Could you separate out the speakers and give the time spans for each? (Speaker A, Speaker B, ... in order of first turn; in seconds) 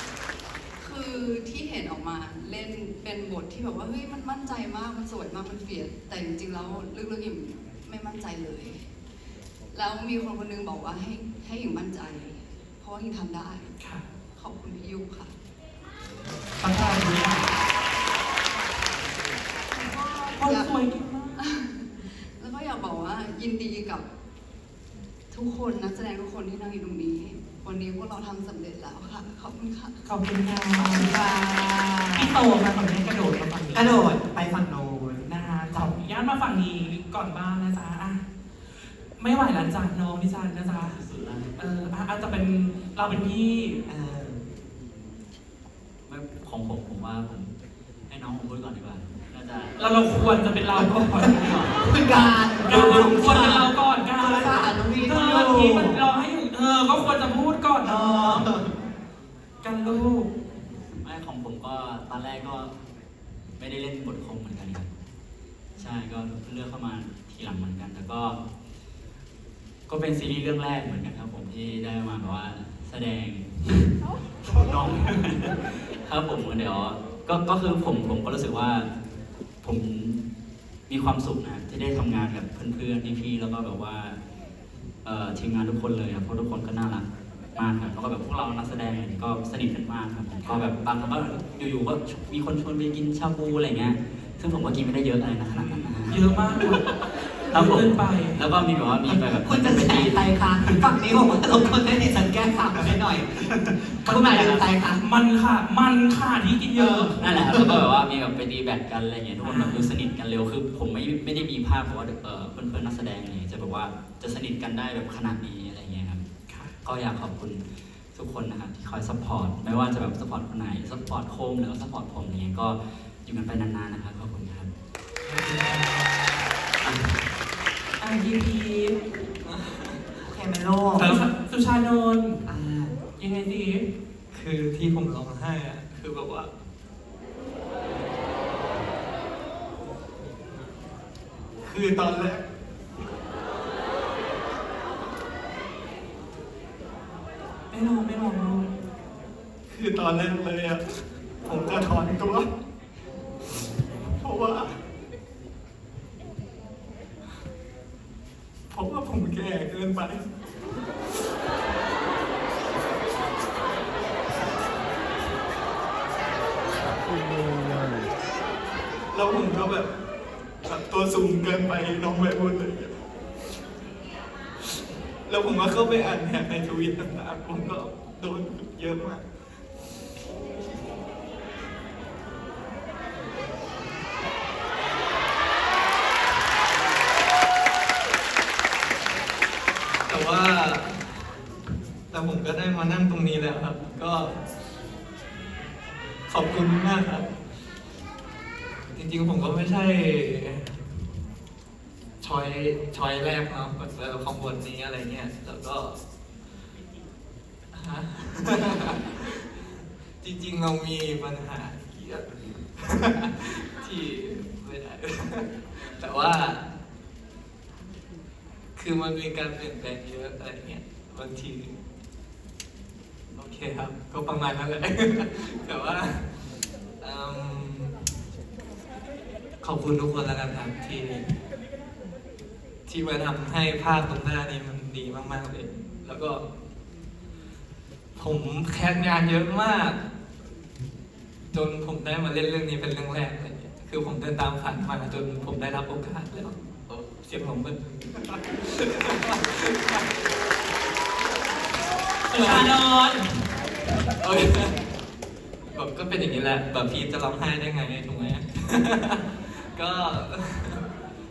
Speaker A: 0.8-8.9, 9.7-13.7, 14.3-15.3, 19.7-20.8, 21.3-24.1, 25.3-30.1, 30.8-31.6
Speaker B: 13.8-14.1, 16.6-17.5, 20.4-21.3, 30.1-31.1, 32.1-34.0, 35.3-38.2, 38.9-41.0, 41.5-43.8, 49.8-51.8, 52.6-58.5, 59.6-60.3, 96.0-98.4, 104.0-107.5, 109.4-110.0, 128.0-129.0, 131.0-132.4, 133.2-133.8, 147.7-148.7, 252.3-253.2
Speaker C: 31.0-32.4, 33.7-35.9, 43.9-44.4, 51.2-56.0, 57.8-58.7, 99.2-105.0, 106.7-107.8, 130.2-131.2, 132.4-132.9
Speaker D: 40.9-41.5, 46.1-47.5, 48.1-49.8, 51.2-52.3, 61.0-62.7, 63.6-64.9, 65.8-68.4, 69.9-78.9, 79.6-80.2, 80.9-84.2, 85.0-96.2, 97.5-100.6, 107.2-116.2, 116.8-124.7, 126.8-127.2
Speaker E: 125.2-126.0, 129.4-130.0, 131.0-131.2, 134.3-136.5, 141.6-142.4, 149.7-150.8, 151.4-152.4, 154.2-154.7, 158.7-160.2, 169.1-169.9, 170.6-172.9, 175.2-179.2, 190.1-191.0, 192.1-194.4, 196.3-197.3, 198.9-200.7, 202.2-206.0, 207.7-209.0, 210.2-212.2, 212.8-216.6, 218.8-221.8, 223.3-226.3, 227.0-228.0, 229.6-231.3, 232.9-236.4, 238.2-240.0, 241.5-247.8, 248.4-250.0, 252.4-252.6, 254.2-254.7, 255.7-260.8